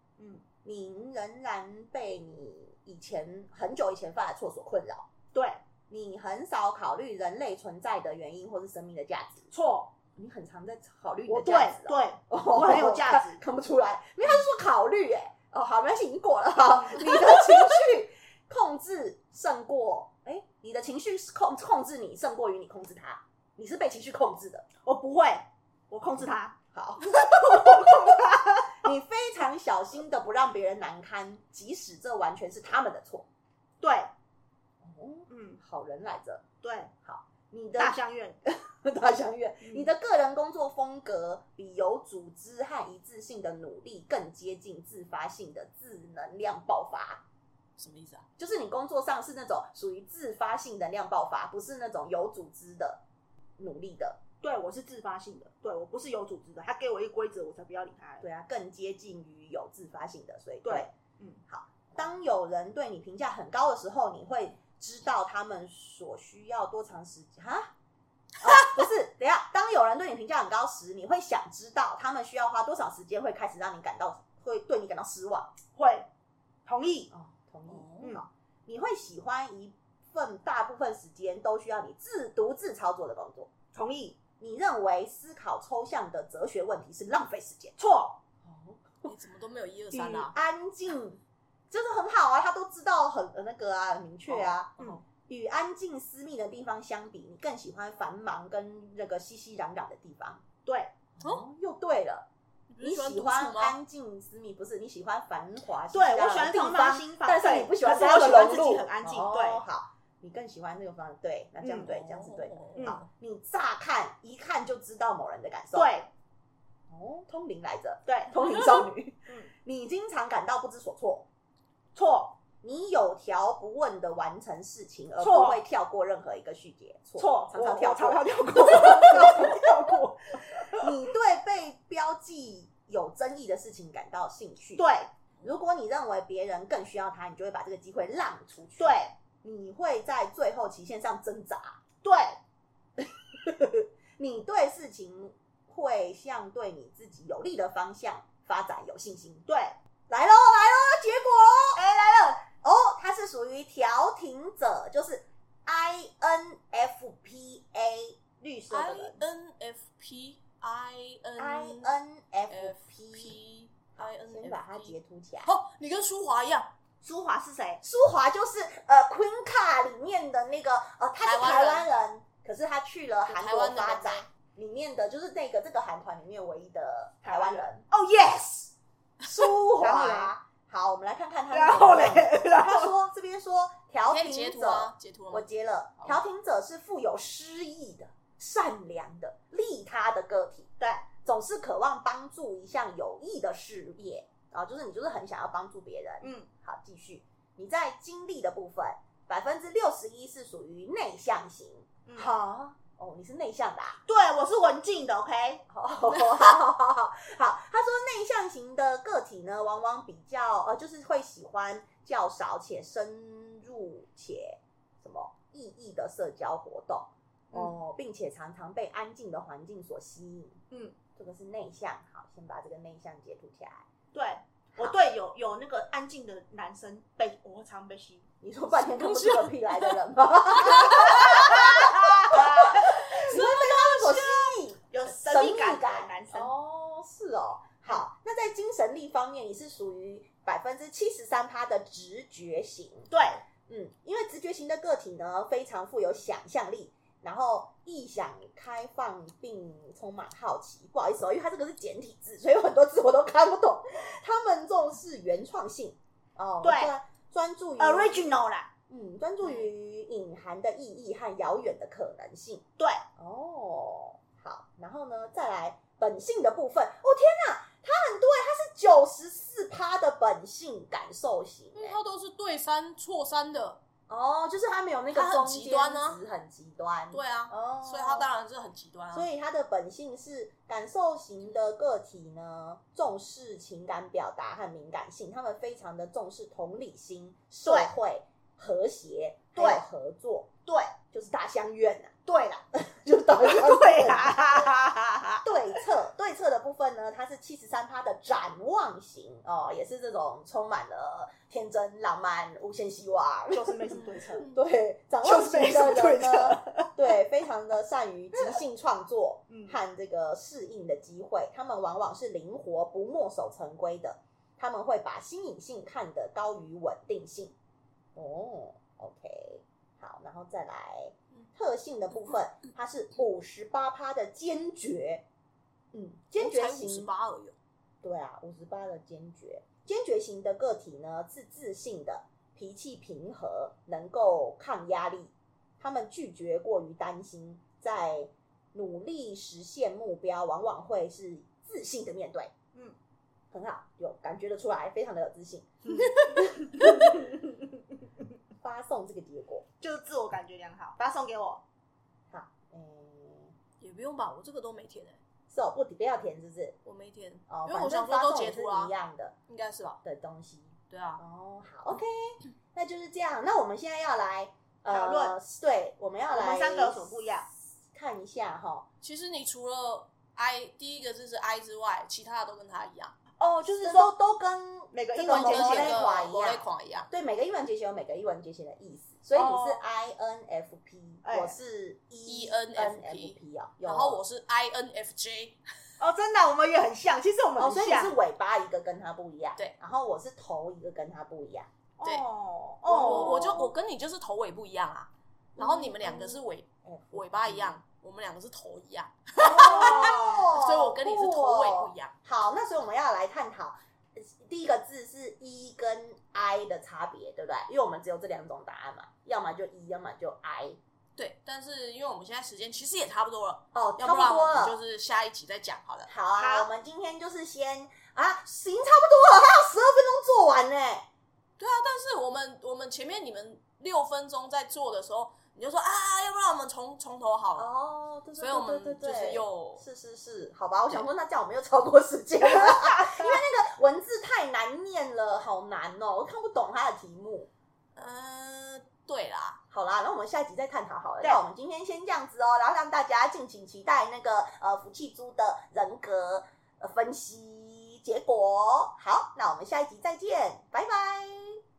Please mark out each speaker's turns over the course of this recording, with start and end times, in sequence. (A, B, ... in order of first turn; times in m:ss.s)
0:00.2-0:00.5 A
0:00.6-0:05.1 B
0:05.3-0:05.6 A
0:05.9-0:09.5 B
0:09.5-0:09.9 A
0:10.1-0:24.7 B
0:11.3-0:13.4 A
0:24.8-0:26.6 A
0:26.7-0:33.3 B
0:27.1-0:28.7 A
0:33.8-0:34.1 A
0:34.8-0:36.4 B
0:35.3-0:35.6 A
0:36.6-0:36.9 A
0:37.0-0:47.2 B
0:37.8-0:38.4 A
0:39.6-0:39.9 A
0:47.8-0:48.3 C
0:48.4-0:53.0 B
0:53.6-0:54.2 B
0:54.4-0:58.2 A
0:58.2-1:00.9 B
1:00.6-1:01.4 A
1:01.5-1:07.7 B
1:08.4-1:15.5 B
1:15.7-1:16.1 A
1:16.6-1:17.1 A
1:17.1-1:23.5 B
1:18.0-1:18.2 A
1:23.7-1:24.2 A
1:24.4-1:27.8 B
1:27.8-1:28.2 A
1:28.4-1:29.1 B
1:29.0-1:30.4 C
1:29.9-1:40.4 B
1:34.3-1:35.0 A
1:40.6-1:40.9 A
1:41.2-1:42.3 B
1:42.7-1:43.8 C
1:42.8-1:55.9 B
1:45.9-1:49.6 A
1:51.6-1:52.0 A
1:52.0-1:53.0 C
1:55.7-1:56.1 A
1:56.9-2:01.3 B
1:58.1-1:58.4 A
2:02.0-2:02.4 A
2:02.6-2:09.6 B
2:05.2-2:05.6 A
2:07.2-2:10.9 A
2:10.6-2:14.9 B
2:14.8-2:15.1 A
2:15.4-2:21.8 B
2:18.8-2:19.1 A
2:22.0-2:22.4 A
2:23.0-2:29.4 B
2:29.5-2:29.8 A
2:30.1-2:31.8 B
2:31.8-2:32.5 A
2:32.6-2:39.2 B
2:38.7-2:42.0 C
2:41.4-2:43.4 B
2:42.5-2:46.7 C
2:44.0-2:45.5 B
2:47.0-2:47.8 A
2:47.8-2:57.8 B
2:51.2-2:51.9 C
2:53.3-2:54.3 C
2:57.2-2:58.7 A
2:59.2-3:24.0 B
2:59.6-3:00.3 A
3:01.5-3:02.9 A
3:04.0-3:05.5 C
3:10.8-3:11.1 A
3:16.2-3:16.5 A
3:22.1-3:22.3 A
3:24.1-3:25.6 A
3:25.7-3:40.6 B
3:40.7-3:41.0 A
3:41.2-3:43.8 B
3:44.1-3:48.3 A
3:48.4-4:03.1 B
3:48.8-3:49.9 C
3:50.6-3:51.2 C
3:51.9-3:52.8 A
3:53.0-3:54.3 C
3:54.9-3:56.5 A
4:03.1-4:03.4 A
4:03.7-4:22.6 B
4:16.6-4:16.9 A
4:17.8-4:18.7 A
4:22.8-4:23.0 A
4:23.2-4:32.0 B
4:31.7-4:33.8 C
4:34.1-4:38.3 B
4:35.1-4:36.2 C
4:37.1-4:39.3 C
4:39.1-4:50.5 B
4:47.7-4:47.9 A
4:49.6-4:49.8 A
4:50.7-4:51.0 A
4:51.1-4:52.2 B
4:52.3-4:52.6 A
4:52.7-4:54.6 B
4:53.4-4:55.4 A
4:55.4-5:17.5 B
5:03.5-5:04.5 A
5:05.2-5:06.9 A
5:09.5-5:09.8 A
5:18.2-5:25.2 B
5:25.9-5:27.1 B
5:26.4-5:27.6 C
5:28.0-5:42.5 B
5:43.5-5:47.2 B
5:48.6-5:49.6 B
5:49.8-5:51.6 A
5:52.3-5:53.5 B
5:53.8-5:55.2 C
5:55.5-5:56.8 B
5:56.8-5:58.9 C
5:57.5-5:59.3 B
5:59.5-6:00.0 C
6:00.0-6:07.4 B
6:00.9-6:01.2 C
6:04.9-6:05.4 A
6:06.3-6:07.5 A
6:07.9-6:08.9 B
6:09.0-6:13.2 C
6:13.4-6:14.1 A
6:13.7-6:24.2 B
6:14.9-6:16.0 A
6:15.3-6:17.1 C
6:19.4-6:19.8 A
6:21.2-6:21.6 A
6:22.3-6:25.6 C
6:26.0-6:28.2 A
6:27.6-6:31.7 B
6:32.0-6:33.6 A
6:32.9-6:42.1 C
6:35.6-6:37.8 B
6:39.4-6:50.8 B
6:51.2-6:56.1 C
6:53.7-6:54.8 B
6:56.1-7:01.1 B
6:56.4-6:56.7 A
7:01.6-7:07.7 C
7:07.6-7:17.5 B
7:08.4-7:09.8 C
7:18.0-7:19.6 C
7:19.7-7:31.6 B